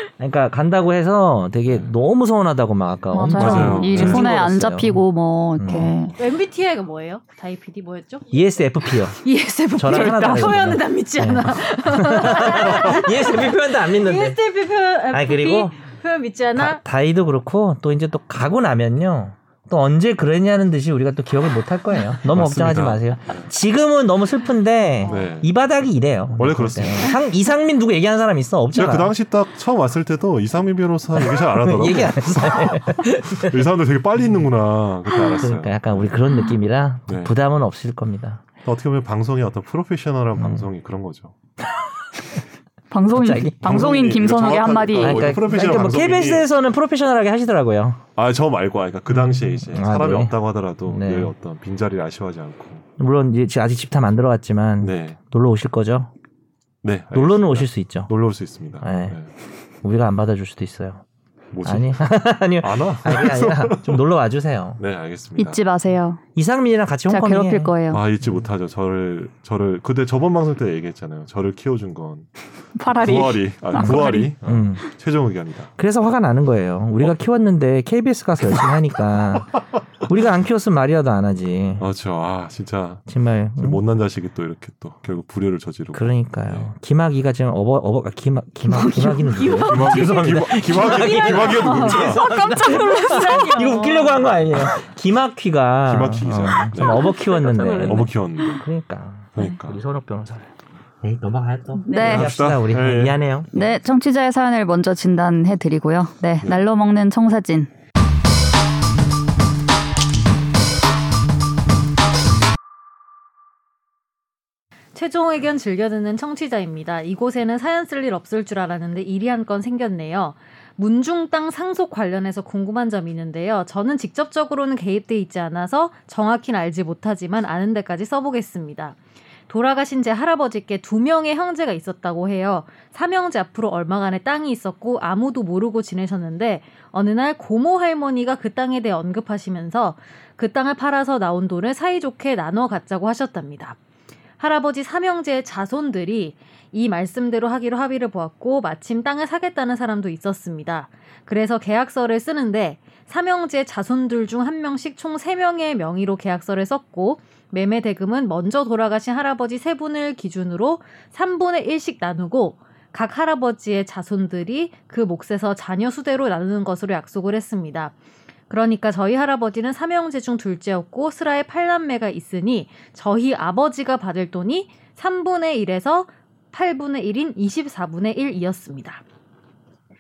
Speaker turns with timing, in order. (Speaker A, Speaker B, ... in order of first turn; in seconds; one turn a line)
Speaker A: 0.2-5.0
Speaker B: 3.1-6.2
Speaker C: 3.3-4.4
Speaker A: 5.6-6.1
Speaker D: 6.2-8.3
Speaker A: 8.3-14.4
Speaker D: 9.2-16.8
Speaker B: 9.9-10.5
Speaker A: 15.1-15.8
Speaker A: 16.6-29.1
Speaker C: 22.3-23.5
Speaker C: 25.1-25.5
Speaker C: 26.4-27.2
Speaker C: 28.7-36.0
Speaker A: 31.1-33.6
Speaker A: 35.2-38.5
Speaker C: 37.1-37.3
Speaker C: 38.6-41.3
Speaker A: 40.4-40.7
Speaker B: 42.9-45.4
Speaker A: 43.1-43.8
Speaker C: 43.6-46.5
Speaker A: 45.0-48.0
Speaker C: 48.2-52.9
Speaker A: 49.1-51.3
Speaker A: 53.0-56.1
Speaker C: 54.8-55.2
Speaker C: 56.8-59.3
Speaker A: 57.1-58.1
Speaker A: 58.8-59.2
Speaker A: 59.8-61.0
Speaker C: 61.5-62.0
Speaker A: 61.6-64.8
Speaker C: 62.6-64.0
Speaker C: 64.8-65.6
Speaker B: 65.4-66.2
Speaker A: 66.4-67.7
Speaker B: 67.1-68.0
Speaker C: 67.9-72.3
Speaker B: 72.8-74.3
Speaker C: 72.9-75.7
Speaker A: 73.8-74.9
Speaker A: 75.8-81.9
Speaker C: 81.8-83.1
Speaker A: 83.1-83.8
Speaker C: 83.6-86.7
Speaker A: 85.9-100.5
Speaker B: 88.7-89.4
Speaker D: 89.1-94.3
Speaker C: 89.7-92.4
Speaker B: 93.2-93.4
Speaker C: 95.9-97.2
Speaker D: 97.2-98.0
Speaker C: 97.8-98.6
Speaker C: 99.4-99.8
Speaker A: 101.0-103.6
Speaker B: 101.8-102.3
Speaker C: 102.0-103.2
Speaker B: 103.5-107.7
Speaker D: 115.0-129.0
Speaker D: 129.5-143.8
Speaker D: 144.4-167.9
Speaker D: 168.5-179.0